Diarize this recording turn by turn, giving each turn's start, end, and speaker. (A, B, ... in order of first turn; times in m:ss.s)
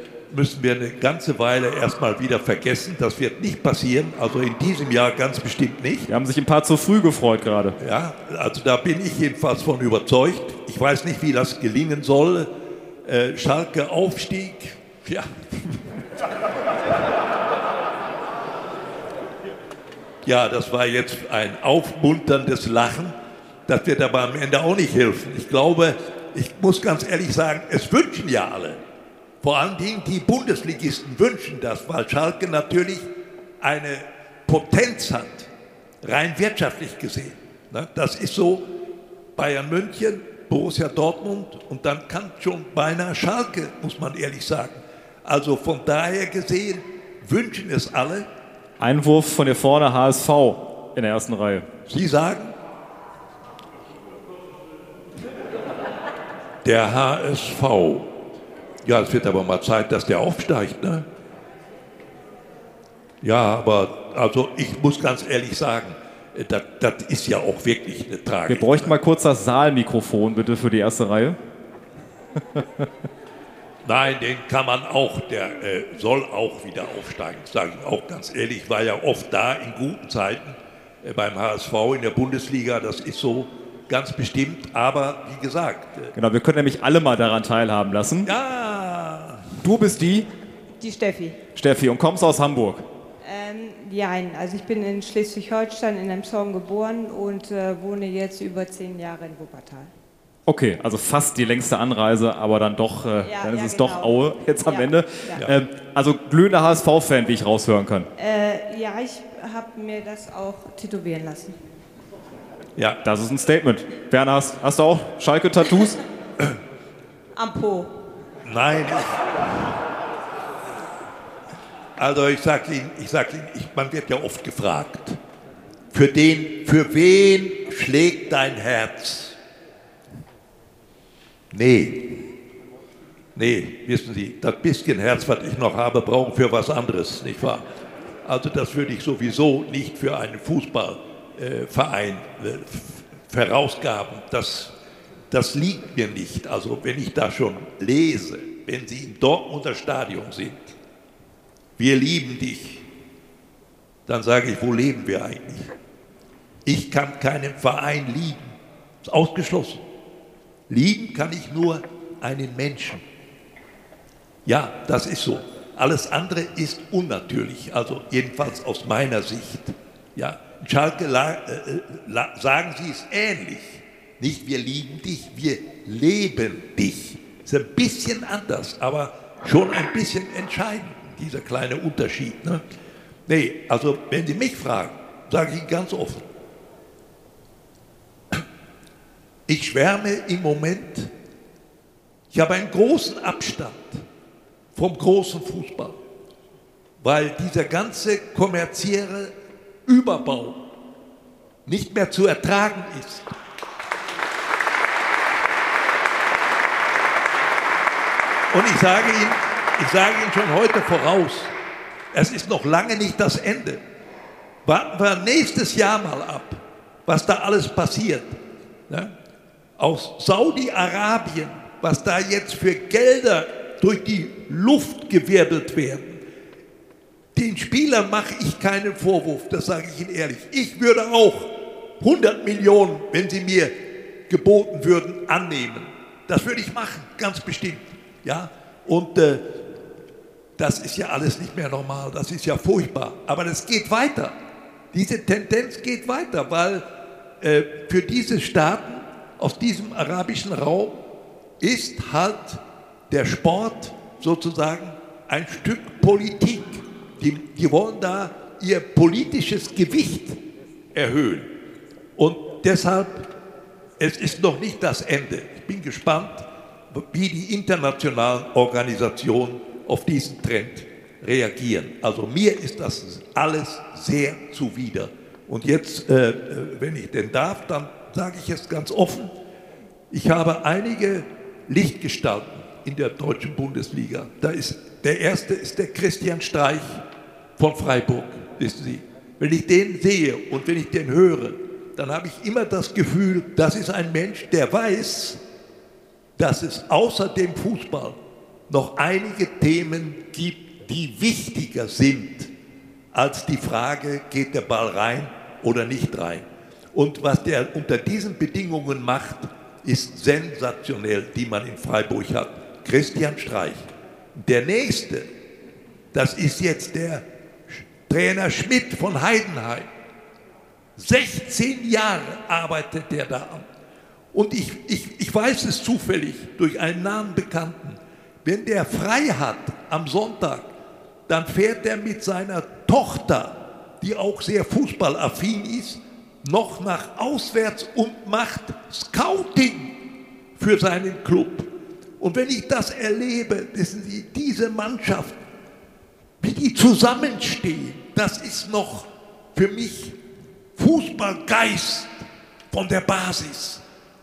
0:00.3-0:06.1 A
0:06.1-0:07.8 B
0:07.8-0:12.5 A
0:13.0-0:16.0 A
0:20.2-0:28.8 A
0:29.4-0:33.1 A
0:33.6-0:35.5 A
0:36.0-0:38.7 A
0:39.4-0:48.3 A
0:48.8-0:51.7 B
0:51.9-0:52.5 A
0:56.6-0:58.1 A
0:58.8-1:01.1 A
1:03.2-1:09.0 A
1:08.5-1:11.4 B
1:12.5-1:12.9 B
1:13.8-1:26.1 A
1:26.2-1:28.3 B
1:28.2-1:29.6 A
1:29.6-1:30.3 B
1:30.8-1:31.4 C
1:31.6-1:32.8 B
1:33.2-1:39.9 C
1:40.5-1:48.1 B
1:43.2-1:45.4 C
1:48.2-1:51.6 C
1:53.0-1:56.0 B
1:57.4-1:57.9 C
1:58.4-1:59.6 A
2:02.0-2:05.2 A
2:05.9-2:09.4 A
2:11.5-2:12.2 A
2:13.4-2:17.7 A
2:18.2-2:24.7 A
2:25.3-2:30.7 A
2:31.8-2:32.8 A
2:34.1-2:35.7 A
2:36.6-2:39.8 A
2:40.7-2:43.0 A
2:44.5-3:02.6 A
3:03.3-3:06.3 A
3:09.5-3:11.1 A
3:12.3-3:14.0 A
3:14.8-3:16.0 A
3:17.0-3:19.3 A
3:19.9-3:20.7 A
3:21.7-3:23.3 A
3:28.5-3:31.5 A
3:32.1-3:33.8 A
3:34.6-3:38.4 A
3:38.9-3:39.1 A
3:39.8-3:46.2 A
3:47.4-3:59.6 A
4:00.6-4:04.4 A
4:04.9-4:06.9 A
4:07.4-4:11.0 A
4:11.6-4:20.4 A
4:20.9-4:21.5 A
4:22.2-4:23.3 A
4:24.0-4:39.3 A
4:40.1-4:47.0 A
4:47.6-4:55.4 A
4:56.4-4:58.2 A
4:58.7-5:02.5 A
5:03.1-5:15.3 A
5:16.1-5:19.9 A
5:21.0-5:23.7 A
5:24.3-5:30.7 A
5:31.3-5:40.0 A
5:40.6-5:45.4 A
5:46.4-5:50.2 A
5:50.8-5:53.8 A